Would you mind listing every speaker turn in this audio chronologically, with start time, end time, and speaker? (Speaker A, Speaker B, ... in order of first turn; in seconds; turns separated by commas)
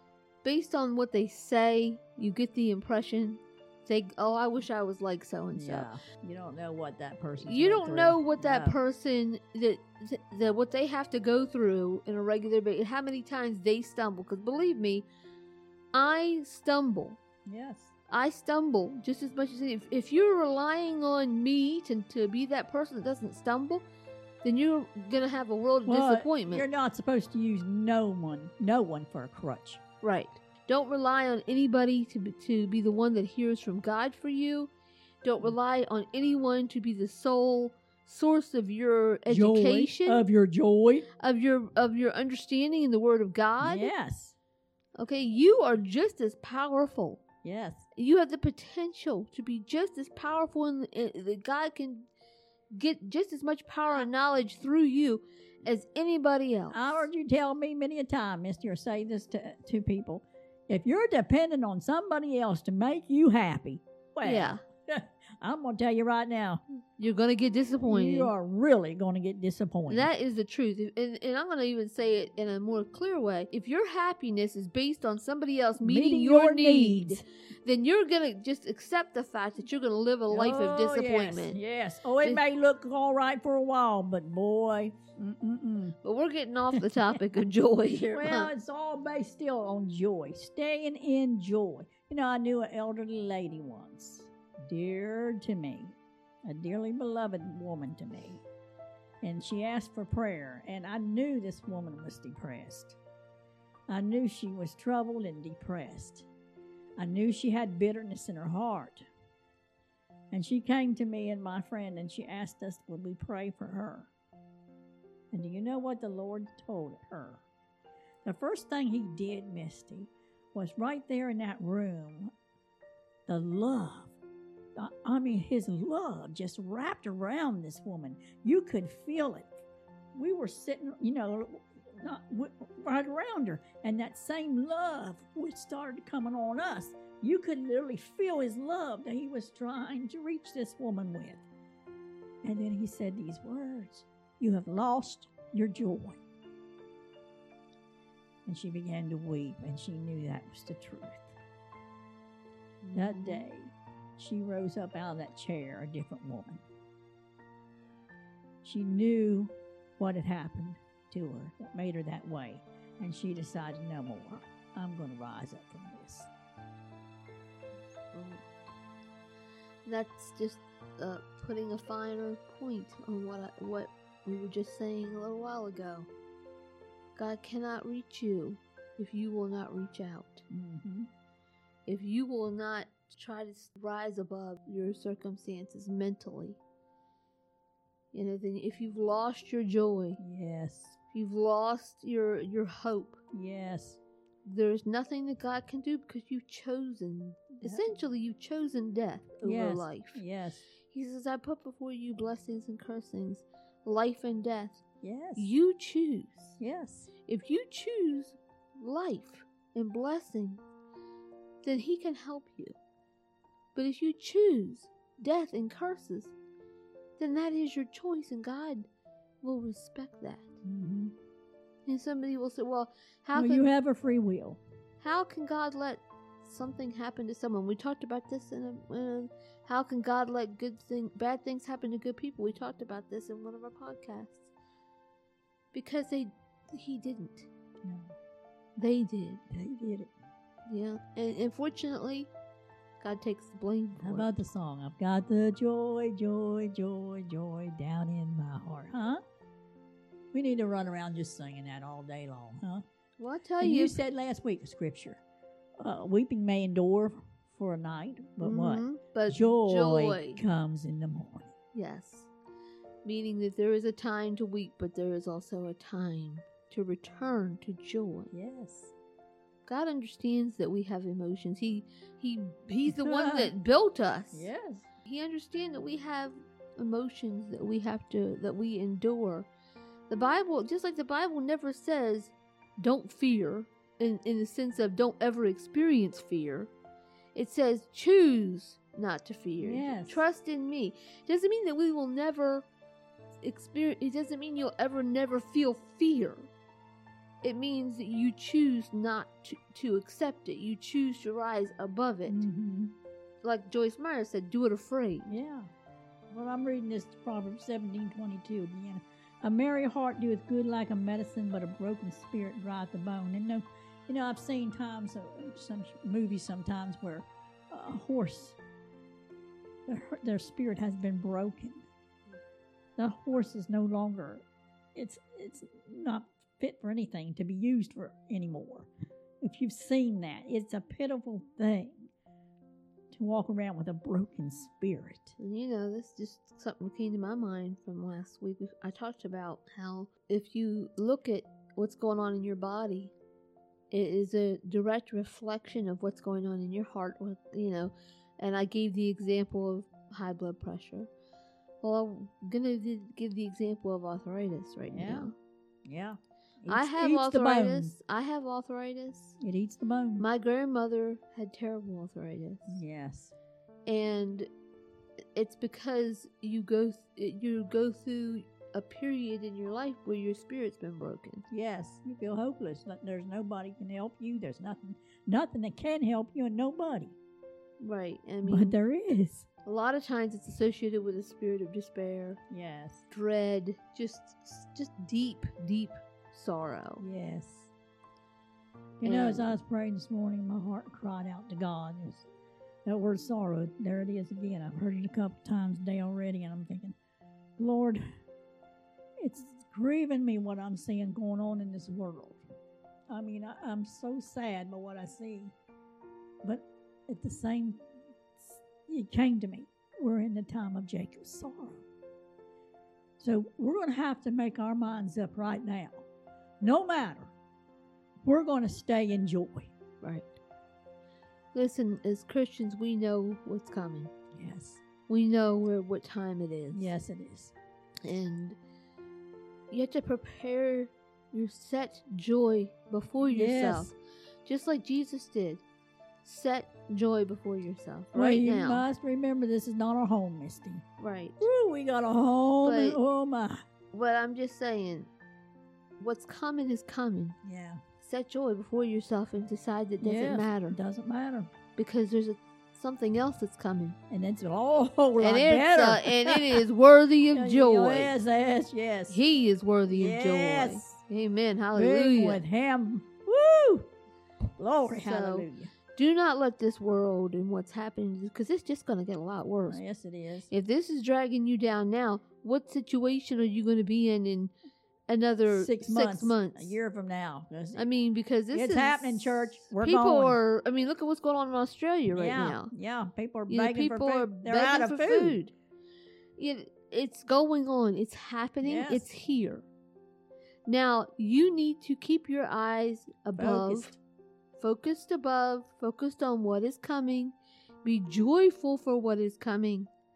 Speaker A: 0.4-5.9, Speaker B: 5.5-8.8, Speaker A: 7.4-15.1, Speaker A: 15.9-17.2, Speaker B: 17.5-17.9, Speaker A: 18.1-23.9, Speaker A: 24.4-26.7, Speaker B: 25.9-29.8, Speaker A: 30.0-34.7, Speaker A: 35.2-40.2, Speaker B: 39.3-41.1, Speaker A: 41.2-43.9, Speaker B: 43.6-44.4, Speaker A: 45.0-47.2, Speaker B: 47.4-47.9, Speaker A: 48.0-52.1, Speaker A: 52.7-57.1, Speaker B: 56.7-66.6, Speaker A: 64.2-64.6, Speaker A: 67.0-68.3, Speaker B: 67.8-70.1, Speaker A: 69.9-81.6, Speaker B: 75.8-77.2, Speaker B: 80.3-86.0, Speaker A: 86.0-88.5, Speaker B: 88.1-98.4, Speaker B: 99.2-103.0, Speaker B: 103.9-106.3, Speaker B: 107.0-109.0, Speaker B: 110.3-114.1, Speaker B: 115.3-117.4, Speaker B: 118.2-122.3, Speaker B: 123.3-124.2, Speaker B: 124.8-129.5, Speaker B: 130.1-141.5, Speaker B: 142.4-146.2, Speaker B: 148.5-151.3, Speaker A: 152.8-153.5, Speaker B: 152.9-156.6, Speaker B: 158.6-166.3, Speaker A: 168.1-168.4, Speaker A: 169.9-176.1, Speaker A: 177.2-180.4, Speaker B: 180.5-181.1, Speaker A: 181.9-186.6, Speaker A: 188.1-190.2, Speaker B: 190.2-191.0, Speaker A: 191.1-193.2, Speaker B: 193.3-194.0, Speaker A: 194.5-200.2, Speaker B: 199.4-200.7, Speaker A: 200.9-204.8, Speaker B: 205.0-205.5, Speaker A: 205.4-206.6, Speaker B: 206.6-207.1, Speaker A: 207.3-210.6, Speaker A: 211.6-212.8, Speaker A: 213.8-216.3, Speaker A: 217.2-218.9, Speaker A: 219.4-220.5, Speaker B: 220.6-221.2, Speaker A: 221.9-223.7, Speaker B: 223.3-224.6, Speaker A: 225.0-234.5, Speaker A: 235.7-237.5, Speaker B: 237.8-238.2, Speaker A: 238.8-239.4, Speaker B: 239.5-240.1, Speaker A: 240.7-242.3, Speaker A: 243.0-244.3, Speaker B: 244.0-249.2, Speaker B: 250.3-252.8, Speaker A: 253.2-254.0, Speaker B: 253.6-255.2, Speaker B: 255.8-261.5, Speaker A: 258.4-260.4, Speaker A: 261.7-262.3, Speaker A: 263.1-268.3, Speaker B: 268.3-268.9, Speaker A: 269.7-274.5, Speaker B: 272.9-273.5, Speaker B: 274.3-274.9, Speaker A: 275.1-279.5, Speaker A: 280.1-286.7, Speaker A: 287.4-292.6, Speaker B: 289.6-290.2, Speaker A: 293.4-296.5, Speaker A: 297.4-302.4, Speaker B: 302.3-302.9, Speaker A: 303.4-305.3, Speaker B: 305.3-305.7, Speaker B: 306.3-318.6, Speaker B: 319.9-321.9, Speaker B: 323.0-328.9, Speaker B: 329.4-332.1, Speaker B: 333.1-335.4, Speaker A: 335.4-343.1, Speaker A: 343.9-351.1, Speaker A: 351.8-355.3, Speaker B: 354.9-355.3, Speaker B: 355.9-357.9, Speaker A: 356.7-359.4, Speaker B: 359.4-360.3, Speaker A: 360.2-362.8, Speaker B: 362.7-363.4, Speaker A: 363.9-364.5, Speaker A: 365.4-371.4, Speaker B: 371.5-377.1, Speaker A: 377.8-378.8, Speaker B: 378.4-379.5, Speaker A: 379.6-382.4, Speaker B: 382.5-383.0, Speaker A: 383.1-387.1, Speaker B: 387.0-387.7, Speaker B: 389.0-392.3, Speaker A: 389.0-389.6, Speaker B: 392.9-397.0, Speaker B: 397.6-398.0, Speaker B: 399.2-402.4, Speaker B: 403.1-405.5, Speaker B: 406.4-407.8, Speaker B: 408.4-411.9, Speaker B: 413.2-416.1, Speaker B: 416.6-417.3, Speaker B: 418.2-419.7, Speaker A: 421.5-424.1, Speaker B: 424.3-424.8, Speaker A: 425.1-426.9, Speaker B: 426.7-427.5, Speaker A: 428.1-428.6, Speaker A: 429.7-433.9, Speaker B: 433.3-433.9, Speaker A: 434.5-435.6, Speaker A: 436.2-438.9, Speaker B: 438.1-440.9, Speaker A: 441.0-441.4, Speaker B: 441.4-443.6, Speaker A: 442.6-443.0, Speaker A: 443.9-445.1, Speaker A: 446.0-447.4, Speaker B: 447.4-447.8, Speaker A: 448.0-450.8, Speaker B: 450.0-451.5, Speaker A: 451.8-454.0, Speaker B: 454.1-456.6, Speaker A: 455.2-458.2, Speaker B: 457.3-459.2, Speaker A: 459.1-462.4, Speaker B: 459.9-461.0, Speaker B: 461.8-463.9, Speaker B: 464.6-465.7, Speaker A: 464.9-469.8, Speaker B: 469.7-470.5, Speaker A: 470.5-474.5, Speaker A: 475.1-476.8, Speaker B: 475.5-477.9, Speaker A: 477.8-482.7, Speaker B: 478.5-480.4, Speaker B: 482.1-485.4, Speaker A: 483.5-485.5, Speaker A: 486.4-489.7, Speaker B: 488.6-489.1, Speaker A: 490.7-493.9, Speaker B: 493.4-494.0, Speaker A: 494.6-499.9